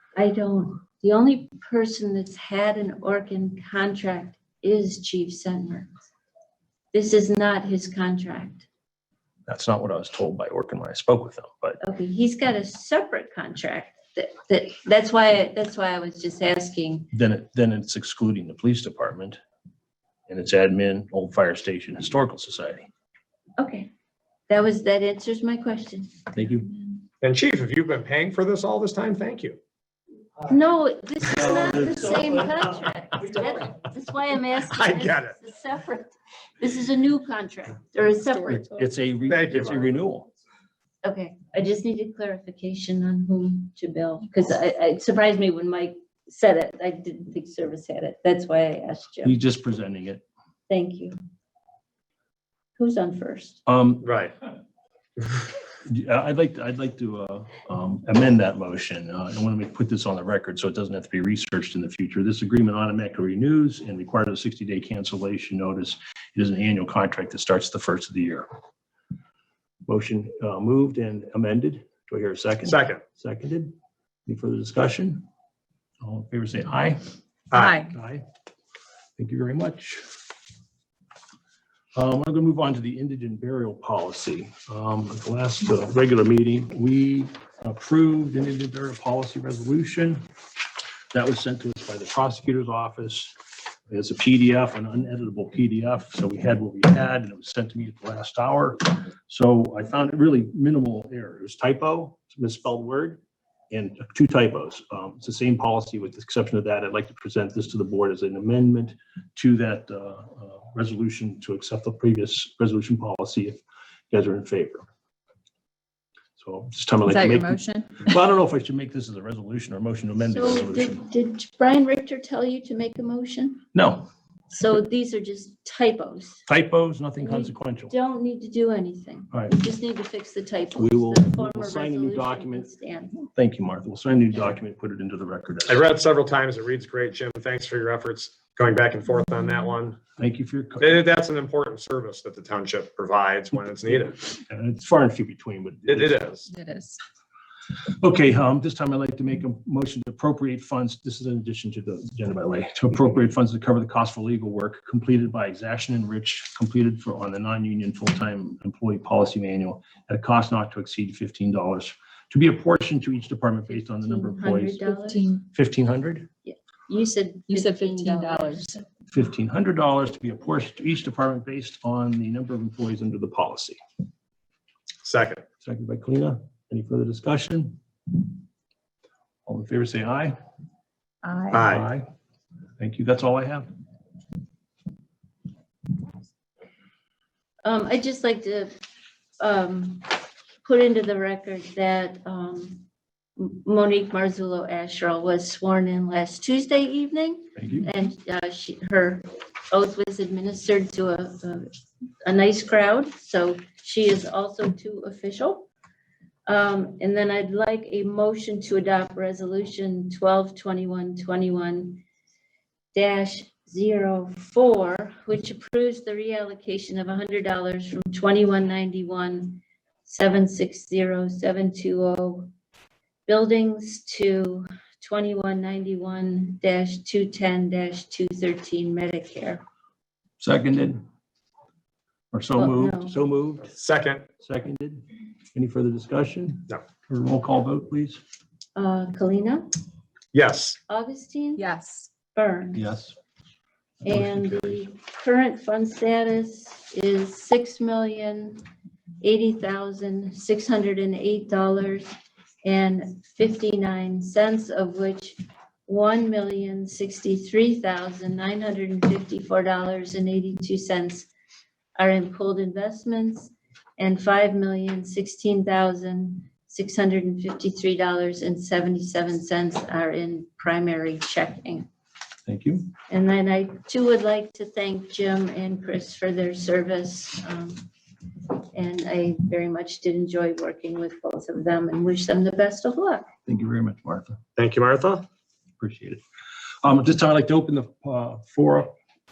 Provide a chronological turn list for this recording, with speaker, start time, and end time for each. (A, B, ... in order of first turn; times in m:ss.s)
0:00.2-0:05.9 A
0:06.9-0:08.7 A
0:09.5-0:11.8 B
0:11.8-0:17.1 A
0:17.1-0:19.4 B
0:20.3-0:22.9 B
0:23.6-0:23.9 A
0:24.5-0:26.2 A
0:26.3-0:26.7 B
0:27.2-0:29.6 C
0:30.5-0:38.7 A
0:31.5-0:32.0 B
0:34.7-0:35.4 C
0:38.2-0:38.9 D
0:38.6-0:40.3 B
0:39.3-0:40.0 C
0:41.0-0:49.4 A
0:49.2-0:50.2 B
0:50.7-0:51.2 A
0:52.8-0:53.6 A
0:53.7-0:54.1 B
0:54.0-0:54.3 C
0:55.8-1:08.5 B
1:09.9-1:13.7 B
1:12.6-1:13.0 C
1:14.3-1:15.2 B
1:16.0-1:17.0 B
1:17.5-1:17.8 C
1:17.5-1:17.9 D
1:17.9-1:18.2 B
1:19.2-1:20.1 B
1:22.0-1:30.2 B
1:31.1-1:33.4 B
1:33.9-1:43.2 B
1:43.7-1:53.6 B
1:54.1-1:54.9 B
1:56.4-2:01.0 B
1:57.1-1:58.1 D
2:00.2-2:03.6 A
2:03.7-2:04.1 B
2:04.5-2:06.4 A
2:06.5-2:07.9 B
2:07.2-2:13.2 A
2:10.8-2:15.9 B
2:15.7-2:20.0 C
2:20.2-2:21.0 B
2:20.8-2:24.2 C
2:24.3-2:26.3 B
2:25.9-2:26.5 C
2:26.5-2:27.0 D
2:28.0-2:44.9 B
2:43.8-2:45.4 A
2:44.8-2:45.4 D
2:45.5-2:46.3 B
2:46.5-2:48.8 A
2:47.5-2:48.8 D
2:49.1-2:53.8 B
2:55.0-2:55.4 C
2:55.6-2:57.8 B
2:59.4-3:00.4 B
3:01.2-3:01.6 D
3:01.5-3:01.9 C
3:01.6-3:02.1 B
3:02.8-3:03.7 B
3:07.6-3:08.7 A
3:09.4-3:12.8 A
3:13.4-3:21.7 A
3:17.6-3:17.9 B
3:22.2-3:25.7 A
3:26.5-3:32.0 A
3:32.9-3:42.5 A
3:43.3-3:49.6 A
3:50.4-3:51.0 B
3:52.3-3:53.8 B
3:52.6-3:53.2 A
3:53.8-3:54.2 C
3:54.4-3:55.0 B
3:55.5-3:58.2 B
3:58.8-3:59.7 A
4:00.3-4:00.8 C
4:00.9-4:01.6 A
4:01.6-4:02.1 D
4:02.3-4:02.8 A
4:02.8-4:03.2 B
4:04.0-4:08.6 A
4:04.0-4:04.9 B
4:09.2-4:21.3 A
4:22.0-4:31.9 A
4:32.5-4:32.9 B
4:33.1-4:37.9 A
4:38.7-4:43.3 A
4:43.5-4:44.4 B
4:44.6-4:45.2 C
4:45.8-4:46.2 B
4:46.8-4:48.9 B